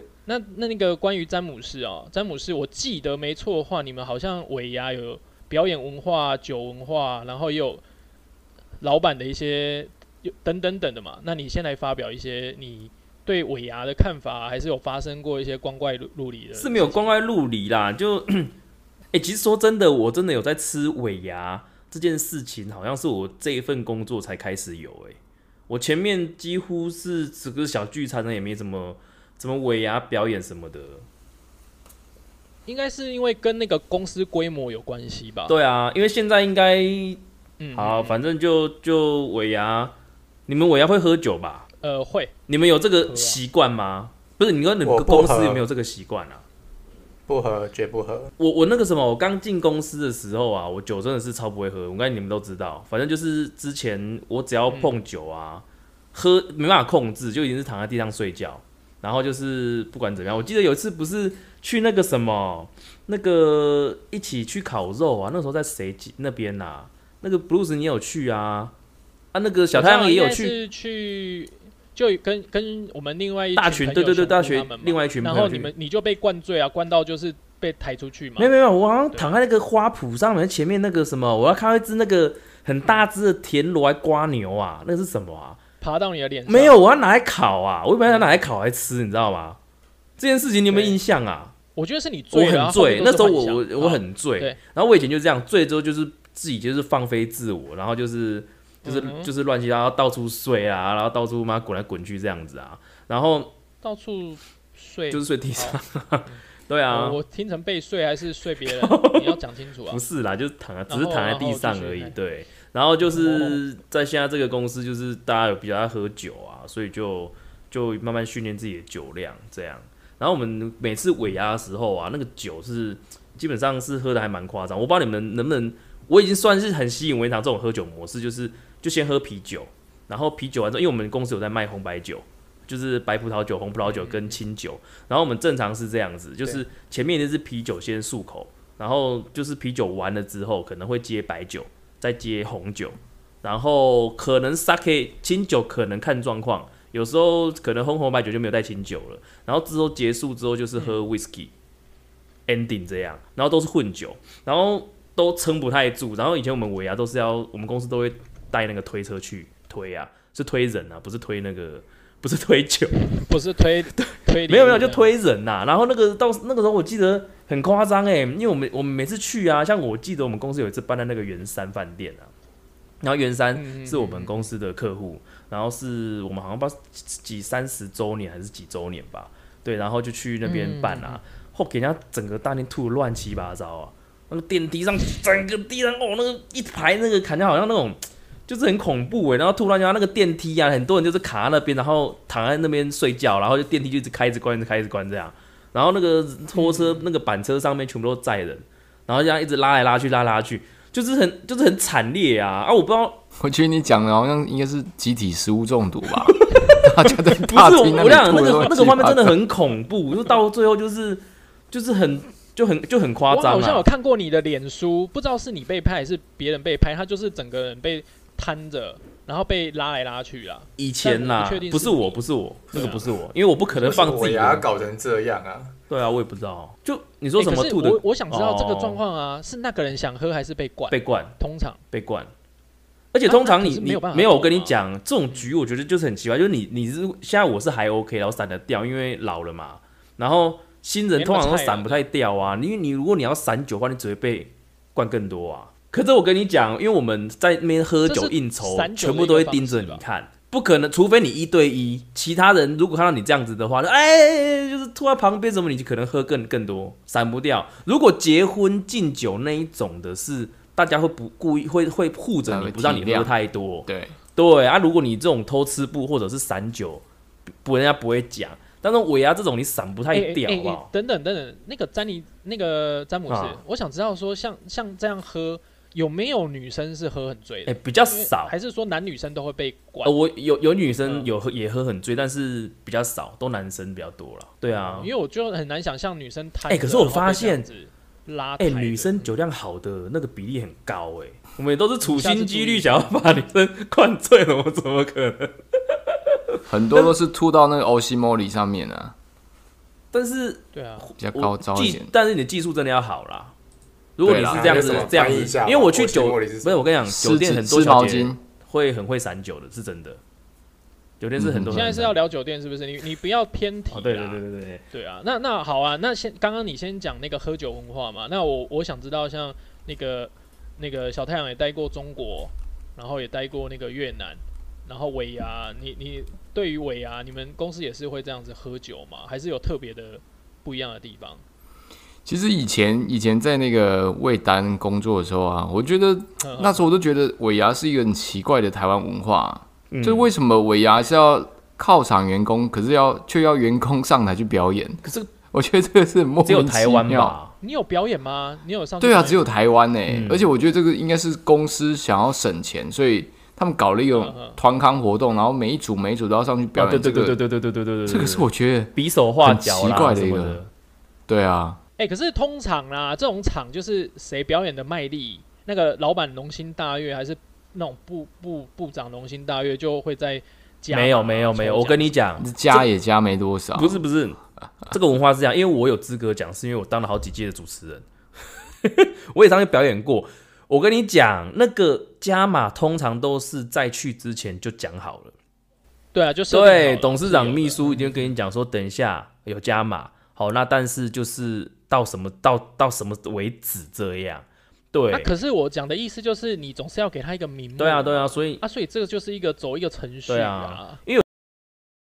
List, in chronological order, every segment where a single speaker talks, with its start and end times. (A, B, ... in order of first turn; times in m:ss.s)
0:00.2-0:07.8 A
0:08.8-0:17.1 A
0:16.6-0:18.5 B
0:19.1-0:25.2 B
0:25.7-0:31.0 B
0:32.7-0:35.5 A
0:35.5-0:37.2 B
0:37.6-0:38.2 A
0:37.7-0:39.9 B
0:40.5-0:41.6 B
0:41.8-0:42.3 A
0:42.5-0:46.4 B
0:43.1-0:43.4 A
0:44.8-0:45.6 C
0:47.3-0:48.3 C
0:48.4-1:08.7 B
0:54.7-0:55.0 A
1:09.3-1:10.5 B
1:09.7-1:18.5 A
1:13.6-1:15.7 B
1:18.4-1:25.6 B
1:19.1-1:19.4 A
1:25.8-1:26.8 A
1:26.5-1:29.6 B
1:28.1-1:28.3 A
1:30.2-1:31.5 B
1:30.7-1:31.0 A
1:31.7-1:34.6 A
1:32.3-1:43.5 B
1:38.8-1:39.3 A
1:43.8-1:46.3 A
1:45.1-1:47.2 B
1:46.9-1:50.0 A
1:48.7-1:49.4 B
1:49.9-2:31.5 B
1:50.9-1:52.1 A
1:53.0-1:53.6 A
2:13.8-2:14.4 A
2:32.5-2:43.1 B
2:43.0-2:45.1 A
2:44.0-2:52.3 B
2:53.0-3:23.2 B
2:53.5-2:54.4 A
3:00.4-3:01.2 A
3:16.5-3:17.0 A
3:23.4-3:29.4 D
3:26.3-3:33.8 B
3:33.3-3:42.2 A
3:40.8-3:44.6 B
3:42.7-3:43.0 A
3:43.7-3:45.7 C
3:45.9-3:49.0 B
3:47.4-3:51.8 A
3:50.9-3:51.3 B
3:51.9-3:52.3 B
3:53.1-4:27.0 B
3:53.2-3:54.7 A
4:01.2-4:02.0 A
4:08.0-4:10.0 A
4:22.5-4:23.3 D
4:23.8-4:24.1 D
4:27.6-4:30.9 B
4:30.1-4:40.1 A
4:33.3-4:33.6 B
4:37.6-4:38.5 B
4:40.0-4:45.1 B
4:41.0-4:41.3 A
4:44.7-4:49.4 A
4:46.7-4:47.6 B
4:48.6-4:55.6 B
4:52.0-4:53.1 A
4:56.1-4:57.1 B
4:56.7-4:59.1 D
5:00.1-5:03.5 B
5:00.7-5:01.0 A
5:01.2-5:02.1 D
5:04.2-5:10.2 B
5:04.2-5:05.1 D
5:04.5-5:06.8 C
5:07.1-5:08.4 D
5:11.2-5:12.1 B
5:11.4-5:12.0 D
5:11.7-5:31.4 A
5:13.9-5:14.8 B
5:32.2-5:47.4 D
5:36.4-5:36.8 A
5:39.9-5:40.3 B
5:45.0-5:45.3 B
5:46.4-5:47.5 B
5:47.6-5:49.6 A
5:49.0-5:57.4 D
5:50.1-5:50.4 B
5:54.1-5:54.6 A
5:56.8-6:00.7 B
5:58.0-6:00.6 D
6:01.3-6:01.8 D
6:02.0-6:12.2 A
6:10.9-6:12.8 B
6:12.4-6:14.0 D
6:13.7-6:14.4 B
6:14.9-6:18.0 B
6:18.8-6:25.3 B
6:26.1-6:28.3 A
6:26.5-6:35.3 B
6:35.1-6:41.0 A
6:37.8-6:38.6 B
6:40.3-6:41.2 B